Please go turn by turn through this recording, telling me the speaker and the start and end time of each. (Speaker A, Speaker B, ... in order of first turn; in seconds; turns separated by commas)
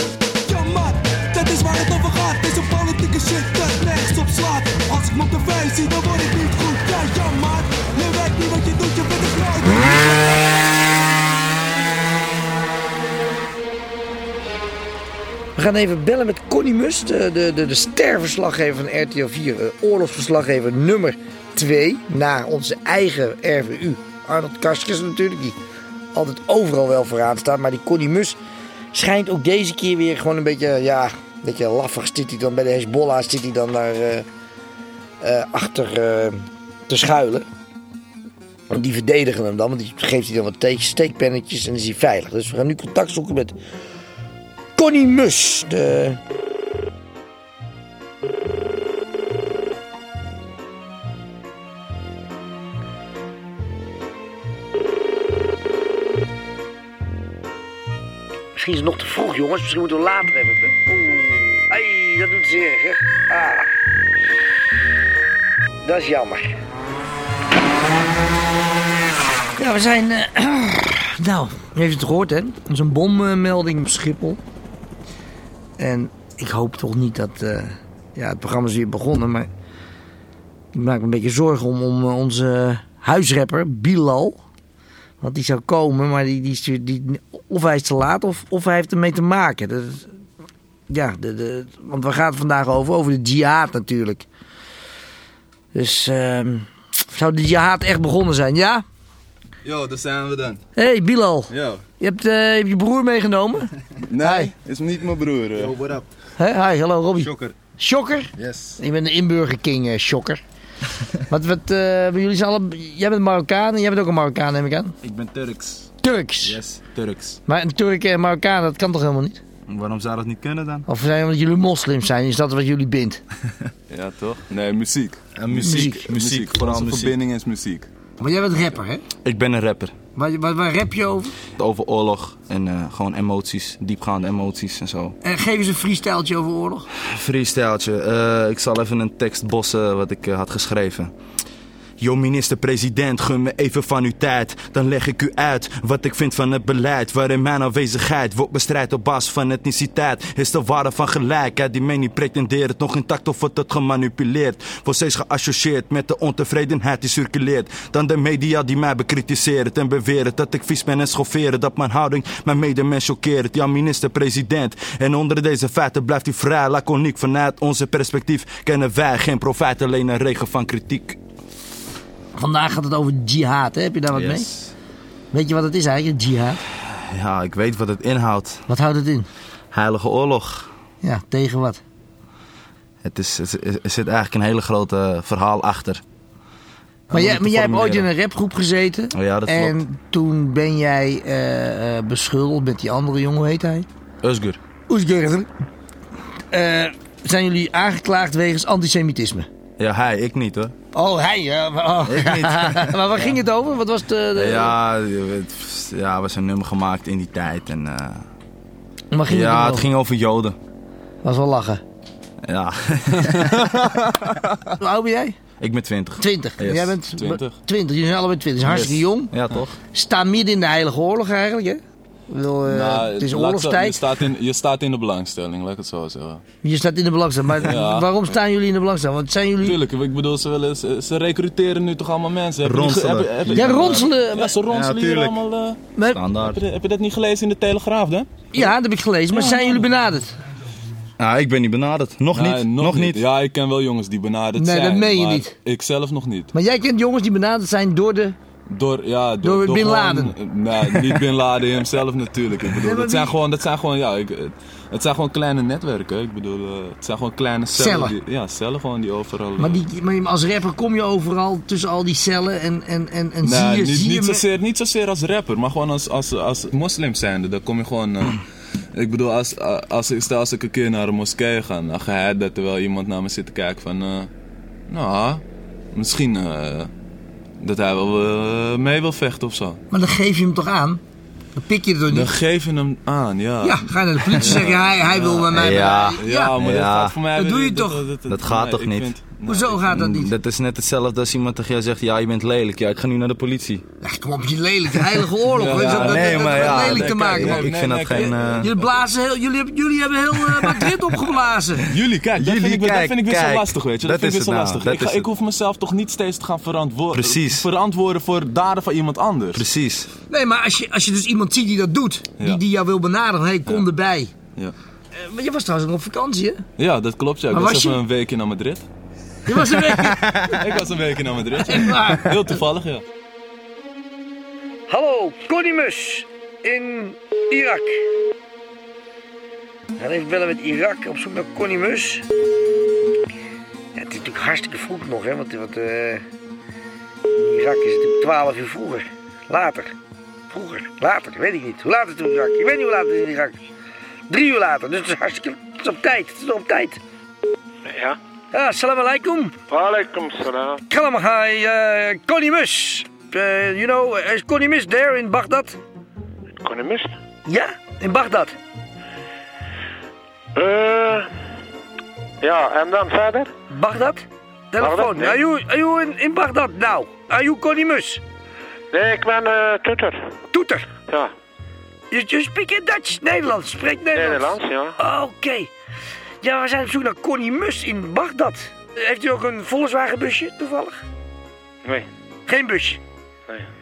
Speaker A: 0.5-10.4, Speaker B: 15.6-25.6, Speaker B: 26.1-28.4, Speaker B: 28.9-34.2, Speaker B: 35.2-37.5, Speaker B: 38.7-43.5, Speaker B: 44.8-46.2, Speaker B: 58.6-63.7, Speaker B: 65.8-66.5, Speaker B: 69.6-74.4, Speaker B: 75.8-79.5, Speaker B: 80.7-84.4, Speaker B: 85.2-90.1, Speaker B: 90.9-94.2, Speaker B: 95.7-98.8, Speaker C: 99.6-100.6, Speaker B: 100.8-104.5, Speaker C: 101.5-101.8, Speaker C: 104.1-106.1, Speaker B: 106.4-110.4, Speaker C: 107.2-107.5, Speaker C: 108.4-108.7, Speaker B: 111.3-115.0, Speaker D: 115.0-115.9, Speaker B: 116.0-116.6, Speaker D: 116.4-117.4, Speaker B: 117.5-119.4, Speaker D: 119.7-120.9, Speaker B: 120.9-123.2, Speaker C: 123.9-127.9, Speaker D: 125.4-127.2, Speaker B: 125.6-126.0, Speaker B: 128.2-129.0, Speaker D: 129.2-129.9, Speaker B: 130.2-131.3, Speaker D: 131.6-135.2, Speaker B: 135.2-136.9, Speaker D: 137.0-141.1, Speaker D: 142.0-171.2, Speaker B: 172.4-174.5, Speaker D: 174.1-174.7, Speaker B: 175.3-176.6, Speaker D: 176.8-178.6, Speaker B: 178.7-179.3, Speaker D: 179.7-180.7, Speaker B: 181.0-181.8, Speaker D: 183.0-186.0, Speaker D: 187.1-188.1, Speaker B: 187.1-193.9, Speaker D: 189.1-189.8, Speaker D: 194.2-194.6, Speaker B: 194.9-195.5, Speaker B: 196.5-199.5, Speaker D: 199.8-200.7, Speaker B: 200.9-204.7, Speaker D: 202.1-202.9, Speaker D: 204.3-208.2, Speaker B: 209.1-209.9, Speaker D: 209.3-210.6, Speaker B: 211.2-211.8, Speaker D: 212.5-213.7, Speaker C: 213.4-214.3, Speaker B: 214.8-215.4, Speaker D: 215.6-216.9, Speaker B: 216.2-219.3, Speaker C: 217.2-217.6, Speaker D: 218.6-219.8, Speaker B: 219.9-224.0, Speaker C: 222.7-226.4, Speaker B: 226.6-229.8, Speaker C: 227.6-228.3, Speaker C: 229.6-235.8, Speaker D: 232.6-234.1, Speaker B: 233.5-234.6, Speaker D: 234.7-235.4, Speaker D: 236.1-236.6, Speaker C: 236.5-238.7, Speaker B: 238.5-240.3, Speaker C: 239.3-239.8, Speaker D: 241.2-243.2, Speaker C: 242.3-246.5, Speaker B: 244.6-245.5, Speaker B: 246.5-248.4, Speaker C: 248.7-259.8, Speaker B: 249.4-250.3, Speaker B: 252.8-253.3, Speaker B: 257.7-258.1, Speaker B: 259.6-264.4, Speaker C: 263.4-268.4, Speaker C: 269.0-274.3, Speaker C: 274.9-276.9, Speaker C: 277.6-279.8, Speaker B: 279.9-281.0, Speaker B: 281.6-282.3, Speaker C: 282.1-285.6, Speaker B: 283.6-286.6, Speaker D: 285.5-287.2, Speaker C: 286.2-289.9, Speaker B: 287.4-288.0, Speaker D: 288.3-289.1, Speaker B: 289.4-290.3, Speaker D: 289.9-293.8, Speaker B: 294.0-301.9, Speaker C: 295.5-298.7, Speaker D: 295.8-298.7, Speaker C: 301.9-309.7, Speaker D: 302.4-305.3, Speaker D: 307.1-307.7, Speaker D: 309.5-310.1, Speaker B: 310.3-314.3, Speaker B: 315.1-316.6, Speaker C: 316.8-318.9, Speaker B: 317.5-318.0, Speaker B: 319.5-320.3, Speaker C: 319.9-323.1, Speaker B: 321.6-322.4, Speaker B: 324.9-328.0, Speaker B: 330.0-332.2, Speaker B: 333.9-336.2, Speaker B: 337.4-339.9, Speaker B: 340.5-343.6, Speaker B: 344.3-347.0, Speaker E: 347.9-348.2, Speaker B: 348.5-349.6, Speaker E: 349.7-350.8, Speaker B: 350.9-355.8, Speaker E: 356.6-357.2, Speaker B: 357.5-358.6, Speaker E: 360.6-361.3, Speaker E: 362.4-363.5, Speaker B: 363.7-368.2, Speaker E: 364.8-365.4, Speaker E: 368.9-370.3, Speaker B: 370.5-370.9, Speaker B: 372.1-375.7, Speaker E: 374.1-375.0, Speaker B: 376.4-381.0, Speaker B: 382.5-383.0